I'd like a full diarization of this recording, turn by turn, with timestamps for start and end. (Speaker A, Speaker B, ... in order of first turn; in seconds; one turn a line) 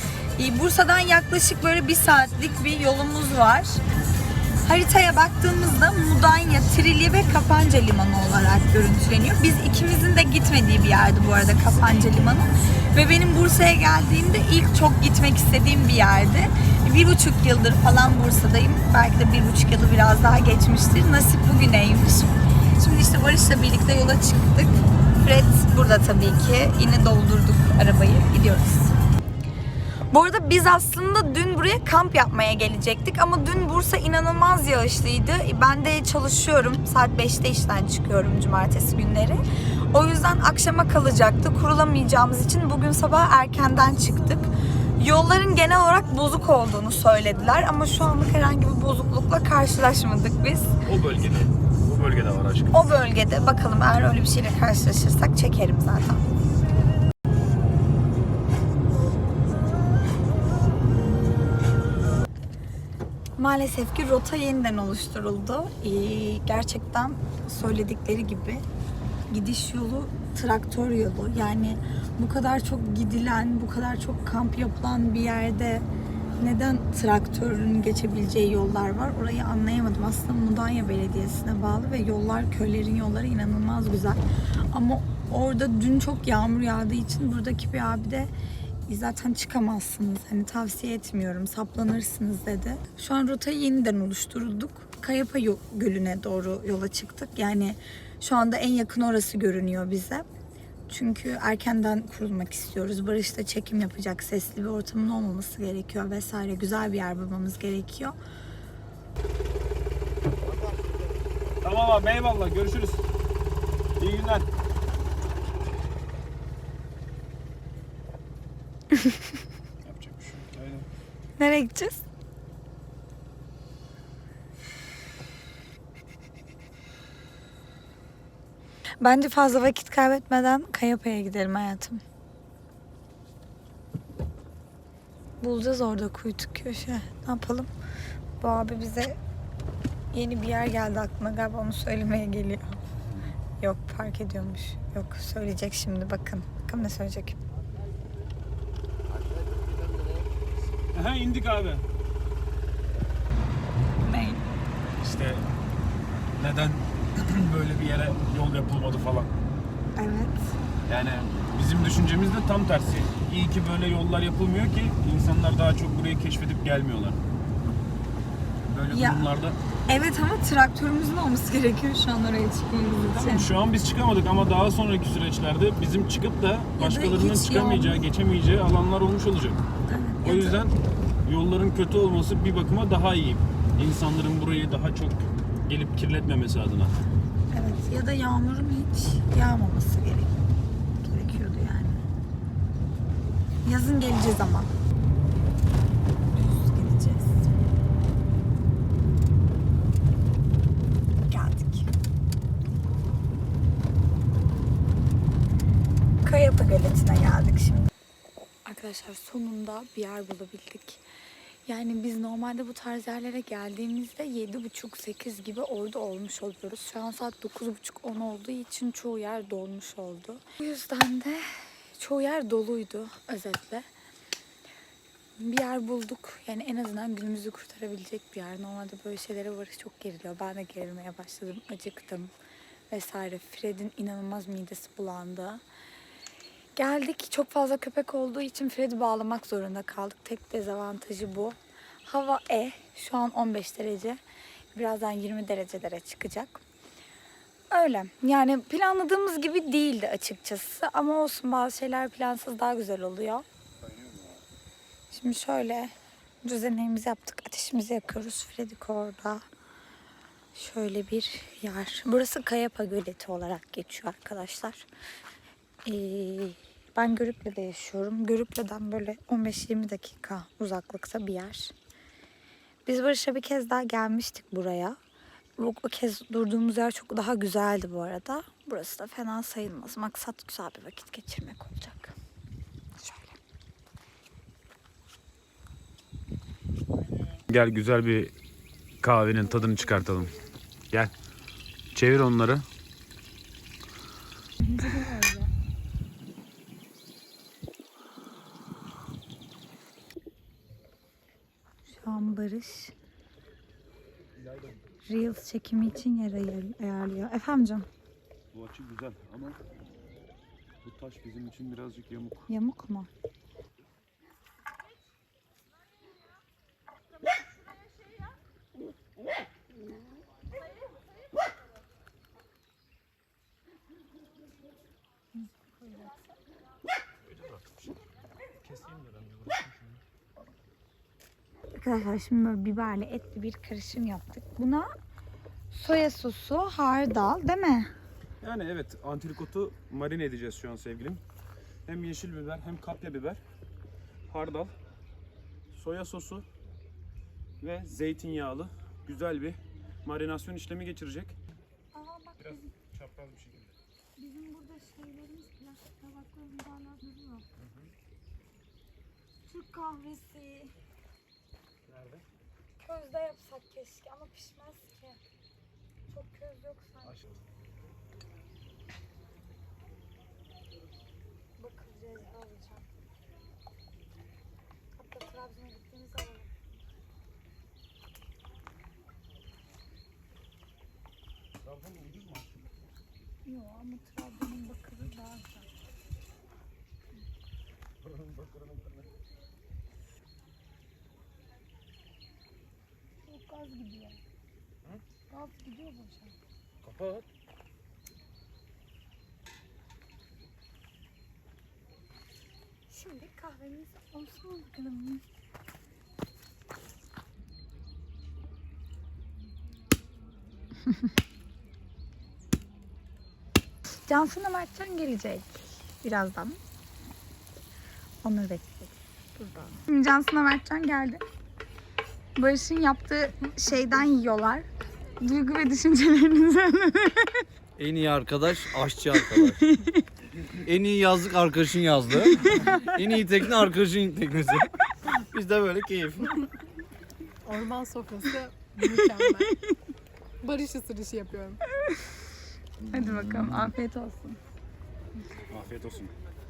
Speaker A: 0.4-3.8
Speaker A: 4.6-28.9
Speaker A: 30.1-50.7
Speaker B: 50.9-52.8
Speaker A: 52.7-56.2
Speaker A: 63.4-68.6
Speaker A: 69.3-75.9
Speaker A: 76.4-88.3
Speaker A: 88.9-100.3
Speaker A: 100.9-108.2
Speaker B: 111.6-113.0
Speaker B: 114.0-114.5
Speaker A: 118.9-119.2
Speaker B: 119.8-120.9
Speaker A: 121.4-122.0
Speaker A: 129.0-132.0
Speaker A: 135.4-137.7
Speaker A: 138.4-139.2
Speaker A: 140.1-142.8
Speaker A: 143.6-147.4
Speaker B: 150.9-151.8
Speaker A: 154.0-154.4
Speaker B: 155.0-155.5
Speaker B: 156.4-159.3
Speaker A: 160.0-160.6
Speaker B: 160.9-167.2
Speaker B: 168.7-169.6
Speaker A: 168.9-169.3
Speaker A: 169.9-173.5
Speaker B: 173.1-179.6
Speaker A: 176.8-178.1
Speaker A: 179.9-180.8
Speaker B: 180.2-180.7
Speaker B: 181.2-186.9
Speaker A: 187.5-190.3
Speaker A: 191.0-192.0
Speaker A: 193.7-194.7
Speaker A: 196.3-197.4
Speaker A: 201.3-201.9
Speaker A: 206.2-207.9
Speaker A: 208.7-211.0
Speaker A: 211.7-223.9
Speaker A: 225.4-232.3
Speaker A: 232.9-235.6
Speaker A: 236.8-244.2
Speaker A: 244.7-246.6
Speaker A: 247.7-253.4
Speaker A: 255.1-255.9
Speaker A: 256.4-259.4
Speaker A: 260.5-264.9
Speaker A: 265.9-271.7
Speaker A: 272.9-275.0
Speaker A: 275.6-282.2
Speaker A: 283.0-283.4
Speaker B: 287.5-288.3
Speaker B: 289.0-290.4
Speaker B: 291.9-292.7
Speaker A: 294.6-295.5
Speaker A: 301.9-302.9
Speaker B: 304.4-304.8
Speaker A: 305.1-307.9
Speaker B: 308.5-309.6
Speaker B: 310.8-312.5
Speaker A: 312.5-313.1
Speaker A: 325.4-326.3
Speaker B: 327.4-327.8
Speaker B: 328.6-330.0
Speaker A: 331.8-334.9
Speaker A: 335.7-337.9
Speaker B: 338.4-341.2
Speaker B: 341.9-343.4
Speaker B: 344.3-344.7
Speaker B: 345.7-346.5
Speaker B: 347.6-351.4
Speaker A: 351.9-352.7
Speaker B: 352.4-353.8
Speaker A: 354.2-357.5
Speaker B: 357.6-357.9
Speaker A: 359.4-360.8
Speaker B: 361.9-362.2
Speaker A: 362.8-365.2
Speaker A: 366.1-367.2
Speaker A: 371.6-372.9
Speaker A: 374.9-376.5
Speaker B: 381.6-382.6
Speaker A: 383.4-385.7
Speaker B: 388.0-389.1
Speaker A: 393.2-394.2
Speaker A: 395.3-396.4
Speaker B: 396.8-397.3
Speaker A: 402.9-405.2
Speaker A: 414.1-416.6
Speaker A: 418.2-421.2
Speaker A: 422.4-424.7
Speaker A: 425.2-427.4
Speaker C: 427.8-429.6
Speaker A: 429.4-430.0
Speaker C: 430.4-436.4
Speaker A: 432.5-432.9
Speaker D: 437.4-439.5
Speaker D: 440.4-441.6
Speaker A: 442.9-444.4
Speaker B: 445.5-446.1